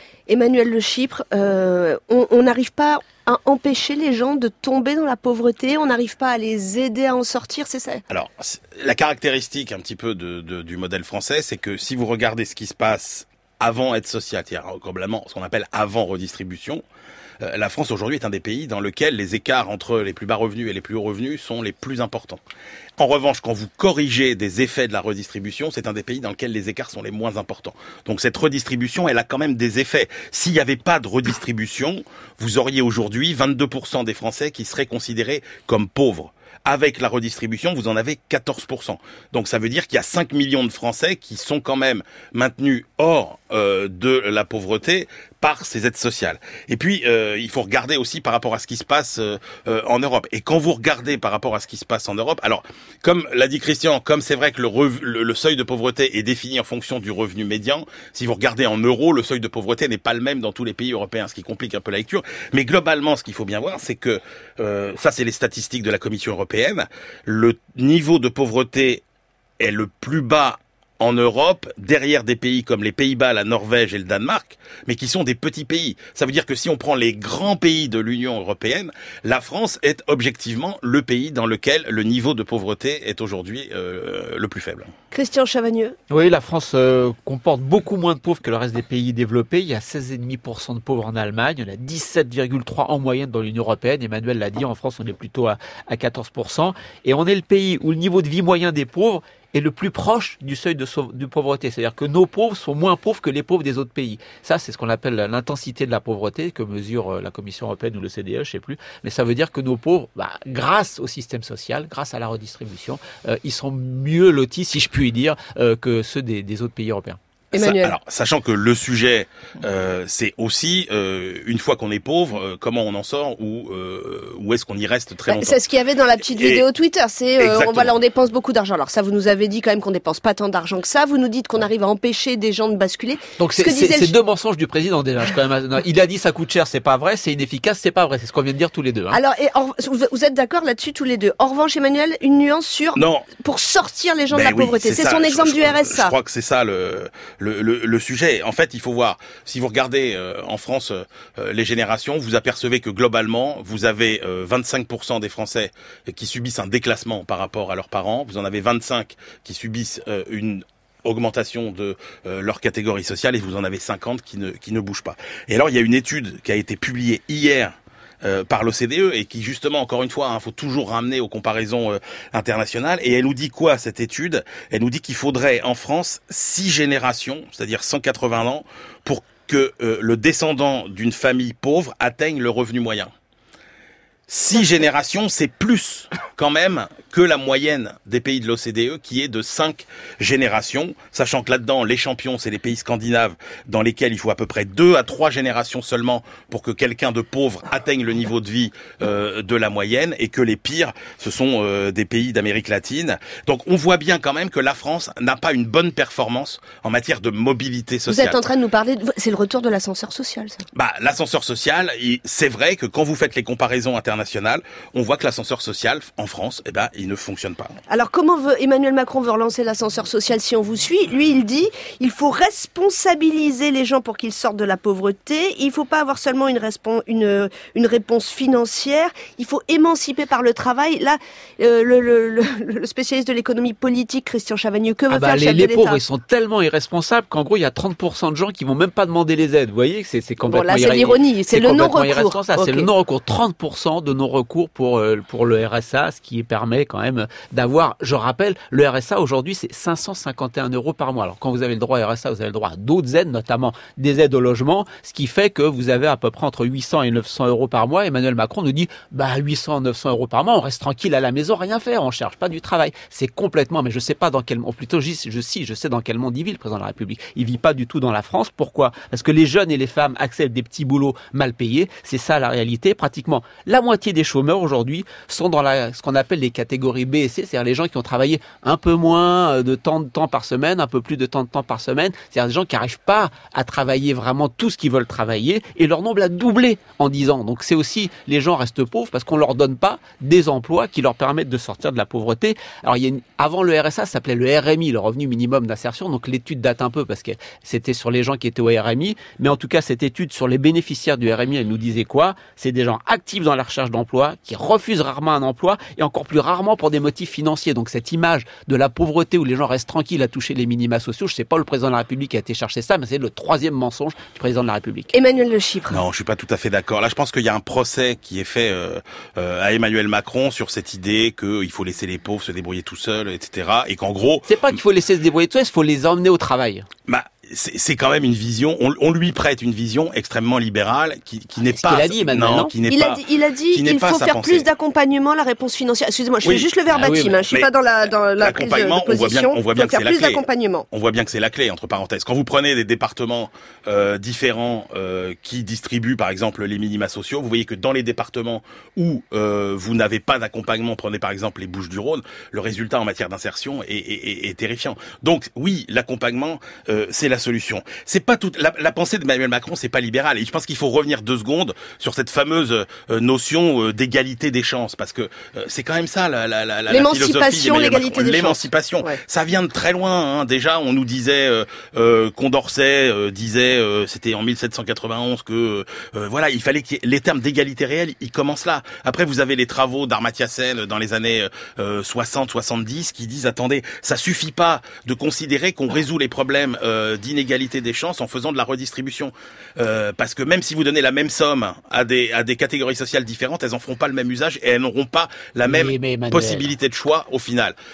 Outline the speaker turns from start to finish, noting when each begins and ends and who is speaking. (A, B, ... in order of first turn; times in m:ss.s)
0:00.3-0:08.0 A
0:08.1-0:16.8 B
0:17.4-0:22.4 B
0:23.0-1:09.0 B
1:09.6-1:24.9 B
1:25.1-1:26.0 A
1:26.1-1:57.2 C
1:57.5-2:05.6 B
1:57.6-1:58.0 A
2:05.3-2:14.1 A
2:06.2-2:06.7 B
2:07.4-2:08.0 B
2:13.4-2:19.2 C
2:19.1-2:26.1 A
2:22.9-2:23.4 B
2:24.3-3:03.1 B
3:04.3-3:28.5 B
3:28.1-3:30.6 A
3:30.7-3:37.8 B
3:37.9-3:56.0 A
3:55.1-5:15.1 C
4:00.4-4:02.9 A
5:15.1-5:16.0 A
5:15.9-5:24.8 B
5:24.5-5:26.9 C
5:27.1-5:34.7 B
5:31.6-5:32.7 C
5:32.8-5:40.9 A
5:36.4-6:37.8 B
5:37.0-5:37.4 C
6:06.9-6:09.2 A
6:35.6-6:36.7 C